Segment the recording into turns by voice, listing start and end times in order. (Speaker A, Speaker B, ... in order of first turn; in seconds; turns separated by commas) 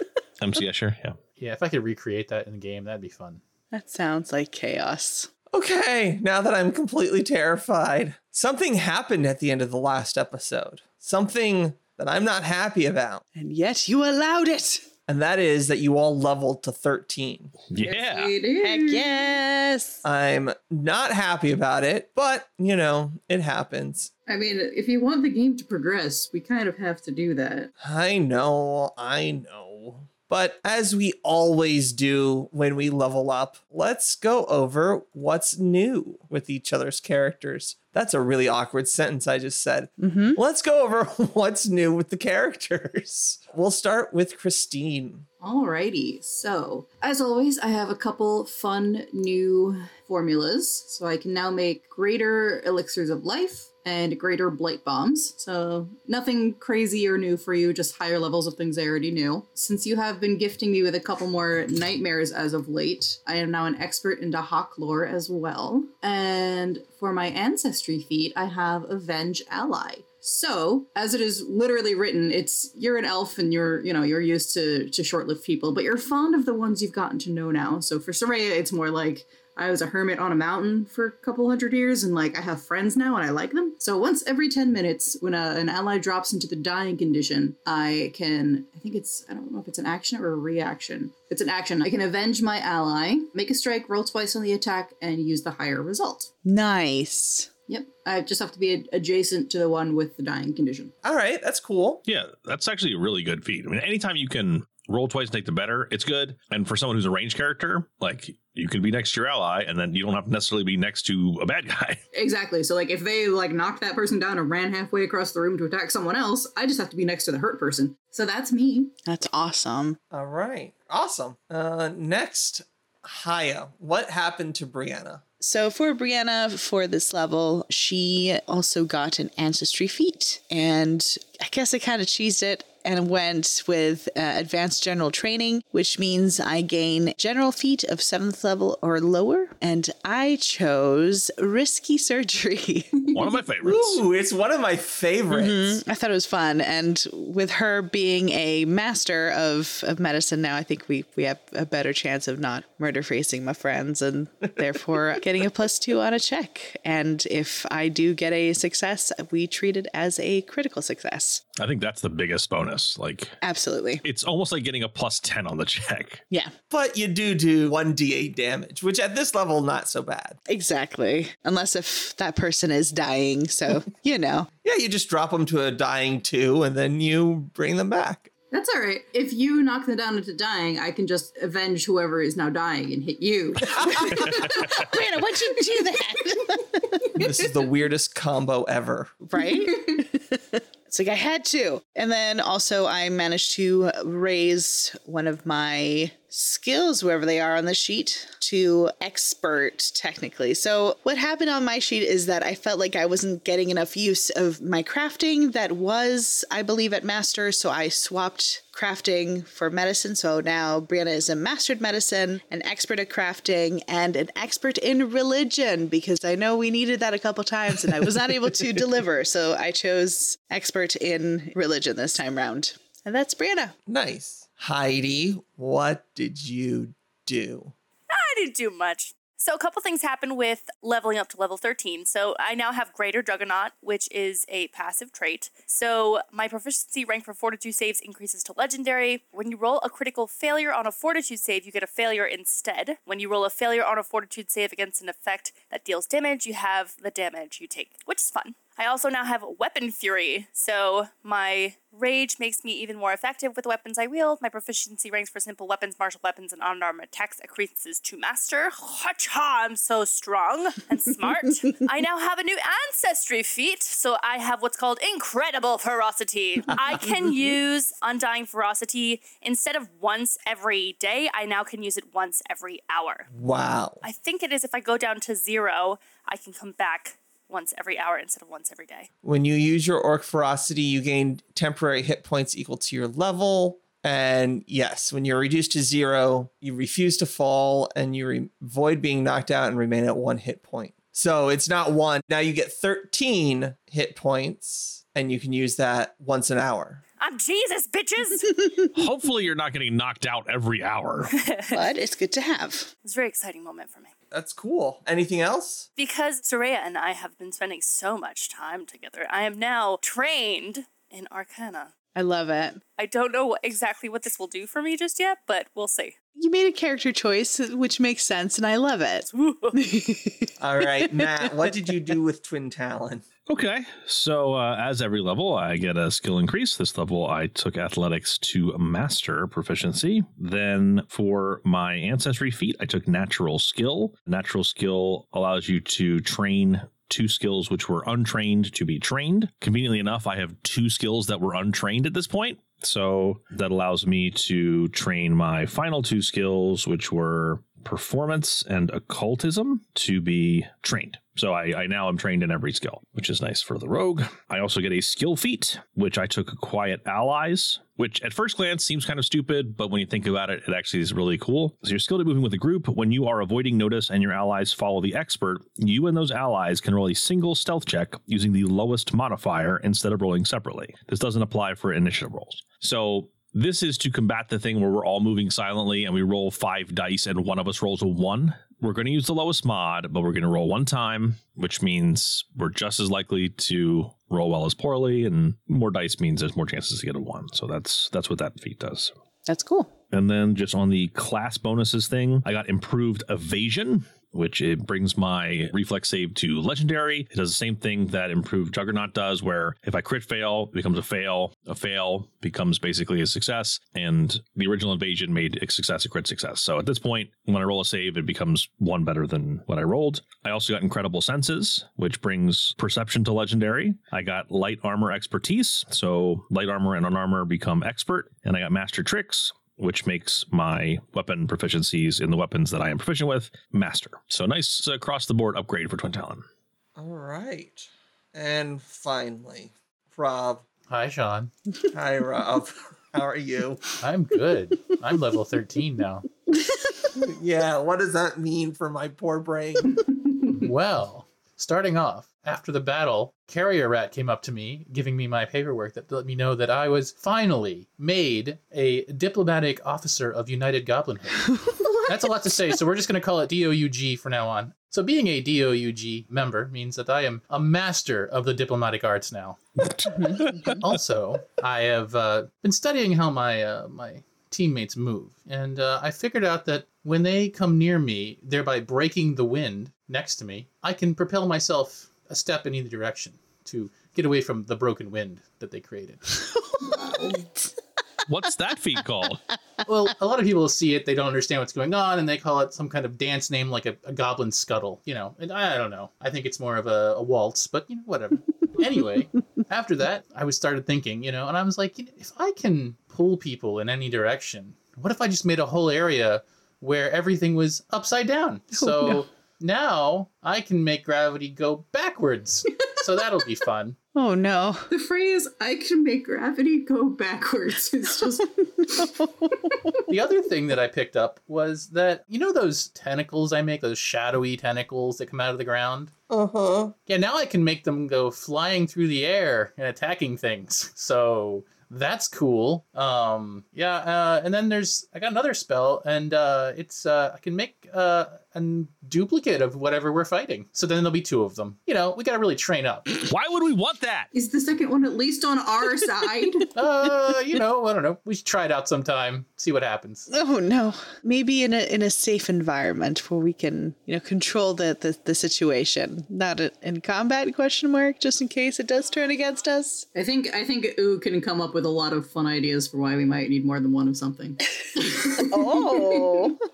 Speaker A: 0.4-1.2, Speaker B: 1.4-3.4, Speaker C: 3.7-5.3, Speaker D: 5.5-13.2, Speaker C: 13.3-14.8, Speaker D: 15.1-17.6, Speaker A: 17.7-18.3, Speaker E: 17.8-19.1, Speaker C: 18.6-20.0, Speaker D: 20.0-24.1, Speaker E: 24.3-27.7, Speaker D: 27.8-45.2, Speaker C: 40.0-40.4, Speaker E: 45.4-96.3, Speaker C: 96.4-97.5, Speaker E: 97.7-100.9, Speaker D: 101.0-102.0, Speaker A: 102.1-112.0, Speaker E: 112.1-118.9, Speaker C: 119.0-120.0, Speaker D: 120.1-125.2, Speaker C: 125.4-143.0, Speaker A: 143.1-144.0, Speaker D: 143.6-145.8, Speaker C: 145.3-161.4, Speaker A: 161.6-163.3, Speaker C: 163.4-164.0, Speaker A: 164.0-166.2, Speaker D: 166.7-170.4, Speaker C: 170.5-174.5, Speaker D: 174.6-178.3, Speaker E: 178.5-184.8, Speaker C: 183.9-187.0, Speaker D: 187.1-189.3, Speaker C: 189.3-223.7, Speaker D: 223.9-227.7, Speaker F: 228.1-273.3, Speaker D: 273.3-274.0, Speaker F: 274.0-279.1, Speaker D: 279.2-297.0, Speaker F: 297.2-298.6, Speaker A: 298.9-301.3, Speaker F: 301.3-301.8, Speaker C: 301.7-302.9, Speaker F: 303.0-304.1, Speaker D: 304.3-305.9, Speaker F: 306.0-311.9, Speaker C: 312.1-312.8, Speaker F: 313.0-316.1, Speaker C: 316.4-321.5, Speaker F: 319.3-319.8, Speaker D: 320.6-323.2, Speaker A: 323.5-389.1, Speaker C: 389.4-389.9, Speaker A: 390.1-426.4, Speaker D: 427.0-430.6, Speaker B: 430.9-431.5, Speaker D: 431.9-434.0, Speaker B: 434.0-436.3, Speaker D: 437.1-440.1, Speaker B: 440.5-459.6, Speaker A: 459.9-460.8, Speaker B: 460.7-476.4, Speaker C: 476.8-477.4, Speaker A: 478.3-479.4, Speaker B: 479.9-504.0, Speaker C: 504.1-504.9, Speaker E: 504.9-509.0, Speaker C: 508.8-509.9, Speaker B: 510.1-516.1, Speaker D: 516.3-516.9, Speaker B: 517.1-533.1, Speaker A: 533.2-534.3, Speaker E: 534.3-536.7, Speaker B: 536.7-540.3, Speaker C: 540.3-550.0, Speaker E: 550.1-556.5, Speaker C: 555.3-556.6